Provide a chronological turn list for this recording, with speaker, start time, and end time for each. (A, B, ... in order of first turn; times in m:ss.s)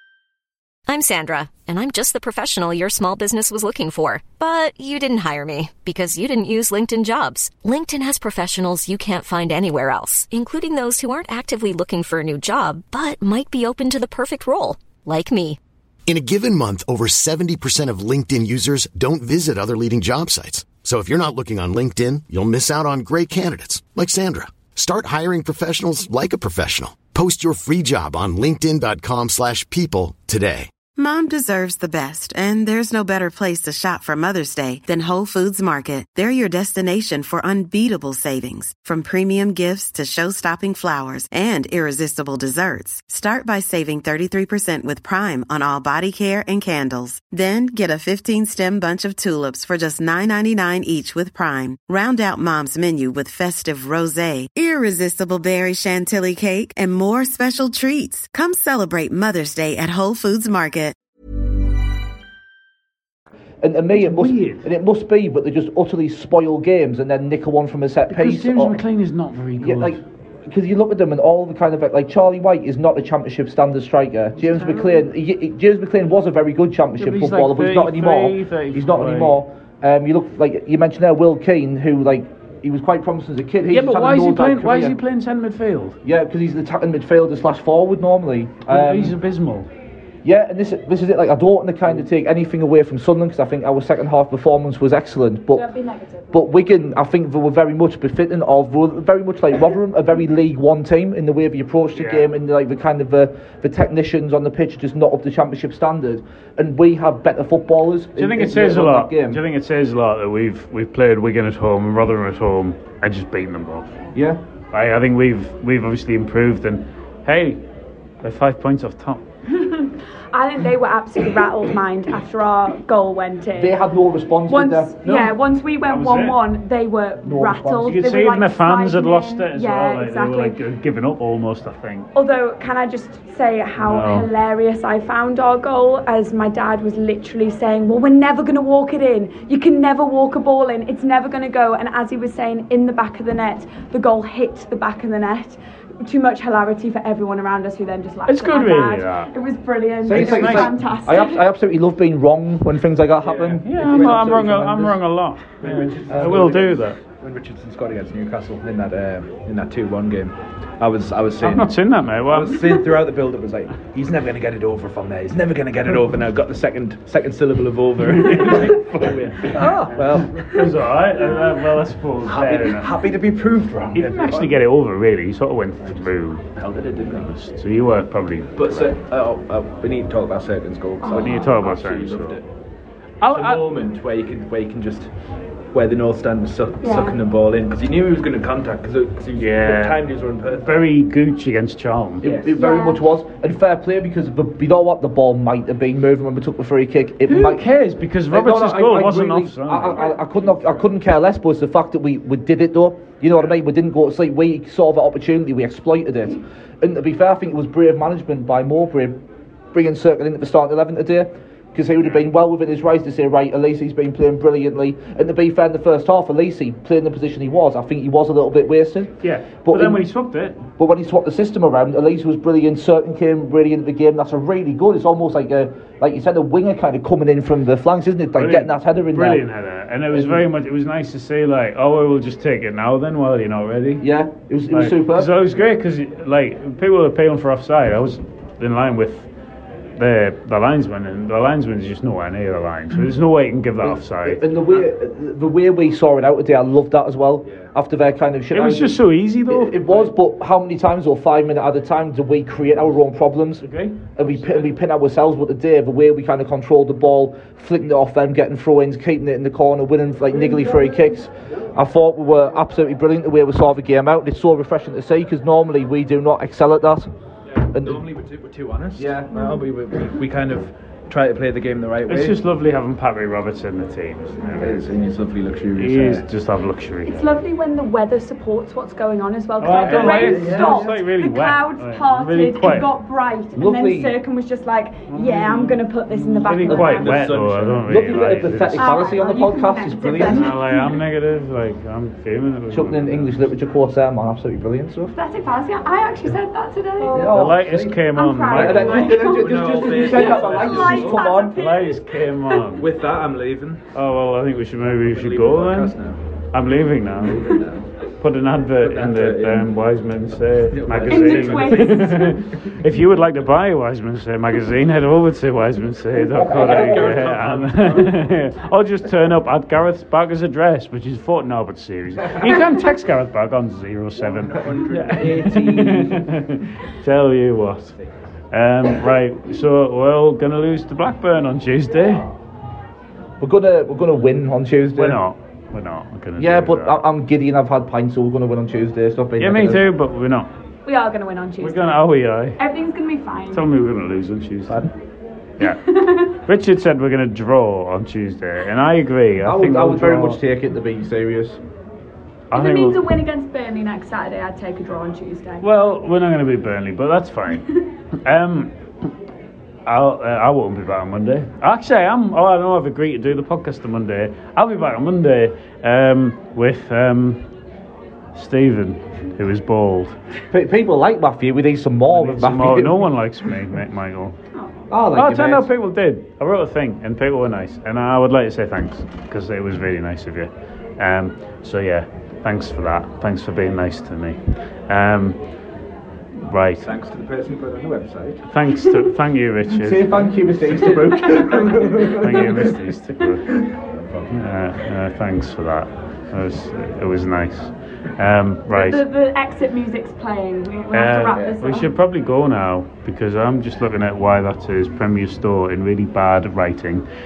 0:00.9-0:15.6 A
0:16.1-0:30.7 B
0:31.0-1:01.0 C
1:03.6-1:08.8 D
1:03.9-1:04.7 E
1:08.1-1:10.0 E
1:09.6-1:25.0 D
1:14.4-1:15.1 E
1:17.0-1:19.4 E
1:23.7-1:26.0 E
1:26.0-1:29.2 D
1:28.7-1:29.7 E
1:30.2-1:35.7 D
1:35.5-1:36.5 F
1:36.3-1:49.4 D
1:42.0-1:42.3 E
1:48.2-1:54.0 E
1:54.2-1:54.4 D
1:54.7-1:57.6 E
1:58.2-1:59.2 E
1:59.5-2:03.8 F
2:03.6-2:05.2 D
2:04.5-2:10.6 F
2:05.9-2:06.4 E
2:07.2-2:07.9 D
2:07.8-2:12.1 E
2:12.2-2:31.5 F
2:13.8-2:14.3 E
2:28.3-2:29.3 E
2:30.0-2:35.0 D
2:30.1-2:30.9 E
2:33.2-2:34.7 G
2:33.6-2:37.0 E
2:35.6-2:41.7 G
2:36.1-2:36.4 D
2:41.4-2:42.7 E
2:42.3-2:50.5 G
2:48.0-2:52.9 E
2:52.2-2:54.6 G
2:53.9-2:56.4 E
2:56.6-2:57.3 G
2:57.2-2:59.0 E
2:58.6-3:02.4 G
3:01.0-3:01.5 F
3:01.1-3:02.4 E
3:03.2-3:03.7 E
3:03.2-3:05.1 G
3:05.7-3:10.8 G
3:06.8-3:07.2 F
3:09.4-3:10.0 E
3:10.5-3:12.3 E
3:12.2-3:17.6 D
3:12.2-3:12.6 G
3:12.6-3:13.0 F
3:17.2-3:20.2 E
3:18.3-3:29.2 D
3:29.7-3:40.0 D
3:39.2-3:40.6 E
3:40.8-3:49.4 D
3:48.4-3:54.1 E
3:50.1-3:50.5 D
3:54.0-3:55.3 D
3:54.7-3:59.3 E
4:00.0-4:04.9 E
4:03.8-4:13.6 D
4:07.4-4:07.7 G
4:08.5-4:10.1 E
4:13.6-4:14.0 E
4:14.2-4:27.1 D
4:27.5-4:32.4 G
4:27.7-4:28.0 D
4:29.0-4:29.3 D
4:29.3-4:29.6 F
4:32.1-4:34.9 E
4:34.6-4:36.2 G
4:35.8-4:37.3 E
4:37.1-4:47.2 F
4:39.6-4:42.9 E
4:39.8-4:41.0 G
4:40.1-4:40.7 D
4:43.6-4:44.1 D
4:45.1-4:49.0 E
4:46.6-4:47.0 D
4:46.8-4:48.7 G
4:47.9-4:50.5 D
4:48.8-4:51.0 F
4:50.2-4:53.5 E
4:52.7-4:55.1 D
4:55.1-4:57.4 F
4:57.1-4:58.0 D
4:57.3-4:59.0 E
4:58.1-5:02.6 F
4:58.5-5:01.6 D
4:58.6-5:01.3 G
5:01.6-5:02.8 E
5:02.8-5:03.8 G
5:03.9-5:06.0 E
5:05.1-5:06.2 G
5:06.5-5:07.6 E
5:07.3-5:07.8 G
5:08.2-5:27.9 E
5:08.8-5:09.7 G
5:10.6-5:12.6 G
5:11.1-5:12.3 F
5:16.2-5:17.4 D
5:16.5-5:18.2 G
5:24.2-5:26.3 G
5:28.5-5:32.3 E
5:33.4-5:35.2 D
5:35.0-5:37.0 E
5:36.4-5:39.8 D
5:39.4-5:40.5 E
5:40.8-5:42.0 F
5:41.6-5:42.6 E
5:42.6-5:43.6 F
5:43.5-5:44.9 E
5:45.6-5:50.4 E
5:45.6-5:46.4 F
5:49.4-5:51.6 D
5:52.5-5:53.0 E
5:52.5-5:55.6 F
5:55.6-5:57.7 E
5:58.2-5:58.8 E
5:59.9-6:07.4 E
6:08.3-6:10.2 E
6:10.5-6:13.1 D
6:12.1-6:14.4 E
6:14.6-6:14.8 F
6:14.9-6:15.7 D
6:15.1-6:25.4 E
6:26.5-6:26.9 E
6:26.8-6:28.4 G
6:28.4-6:30.1 E
6:29.8-6:32.4 D
6:30.7-6:31.0 G
6:31.2-6:32.1 F
6:32.0-6:33.6 E
6:34.3-6:39.0 E
6:38.7-6:41.9 F
6:40.9-6:47.1 E